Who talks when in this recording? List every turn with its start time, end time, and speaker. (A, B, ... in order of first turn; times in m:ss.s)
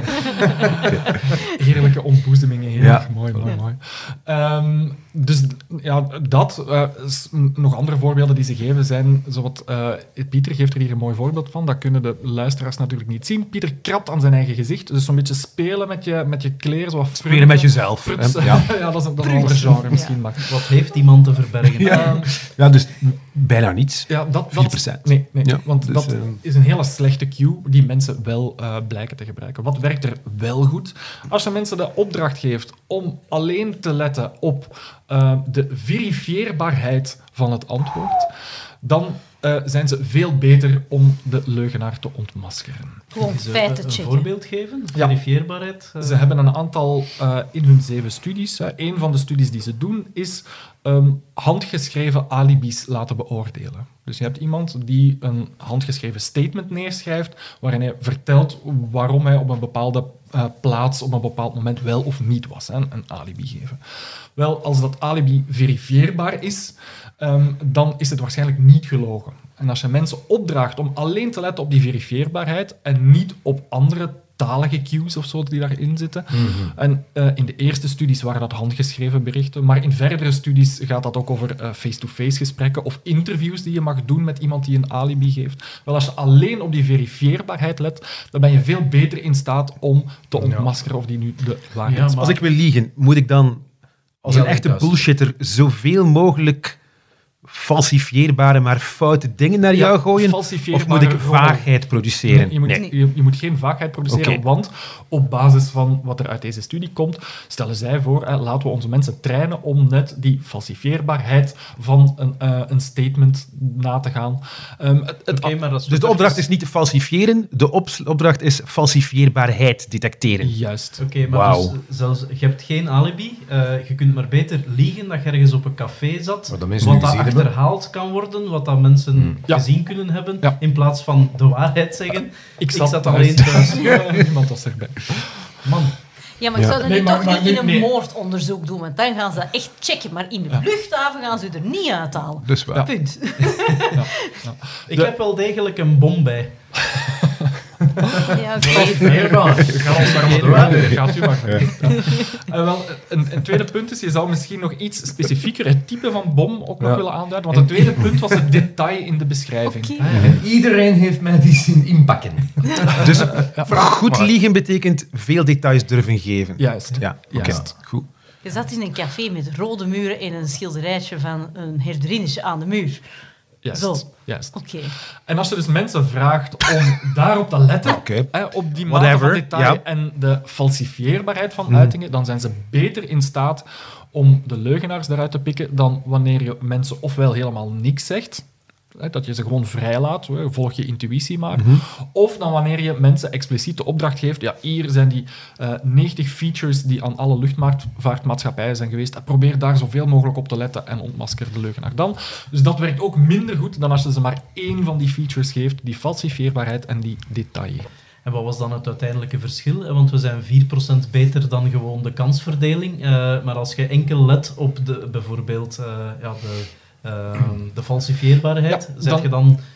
0:00.5-0:20.6 A
0:00.9-0:01.2 B
0:02.8-0:03.6 B
0:17.2-0:20.0 B
0:20.4-0:22.1 C
0:21.8-0:26.4 B
0:21.8-0:22.3 A
0:24.1-0:43.0 A
0:43.1-0:44.3 D
0:43.2-0:46.3 C
0:46.0-1:32.3 A
1:16.3-1:16.7 E
1:30.4-1:30.7 E
1:31.8-1:32.4 C
1:32.1-1:33.7 B
1:34.2-1:36.8 B
1:34.3-1:35.0 E
1:37.4-1:42.8 B
1:39.7-1:41.7 A
1:42.2-1:55.6 A
1:44.1-1:44.4 B
1:55.3-1:56.4 C
1:55.9-2:00.6 B
2:00.4-2:01.0 A
2:01.0-2:14.2 C
2:01.2-2:01.7 E
2:06.5-2:07.5 E
2:09.1-2:09.4 E
2:09.5-2:09.8 A
2:12.6-2:15.5 A
2:13.9-2:14.1 B
2:15.7-2:15.9 C
2:16.4-2:24.0 D
2:16.6-2:17.9 A
2:22.4-2:22.8 B
2:23.9-2:25.1 A
2:24.9-2:26.8 C
2:27.0-2:27.5 A
2:28.0-2:40.3 A
2:28.3-2:29.1 D
2:28.6-2:31.6 E
2:29.9-2:30.7 C
2:30.6-2:31.9 B
2:36.8-2:38.3 E
2:39.6-2:40.0 D
2:40.1-2:44.3 E
2:40.1-2:40.4 B
2:43.0-2:48.0 B
2:46.6-2:47.7 A
2:47.3-2:47.7 E
2:48.4-2:53.0 D
2:53.6-3:27.9 A
2:53.7-2:54.9 D
2:57.8-2:59.8 B
3:01.7-3:01.9 B
3:11.5-3:11.8 B
3:28.2-3:39.6 C
3:38.7-3:39.3 A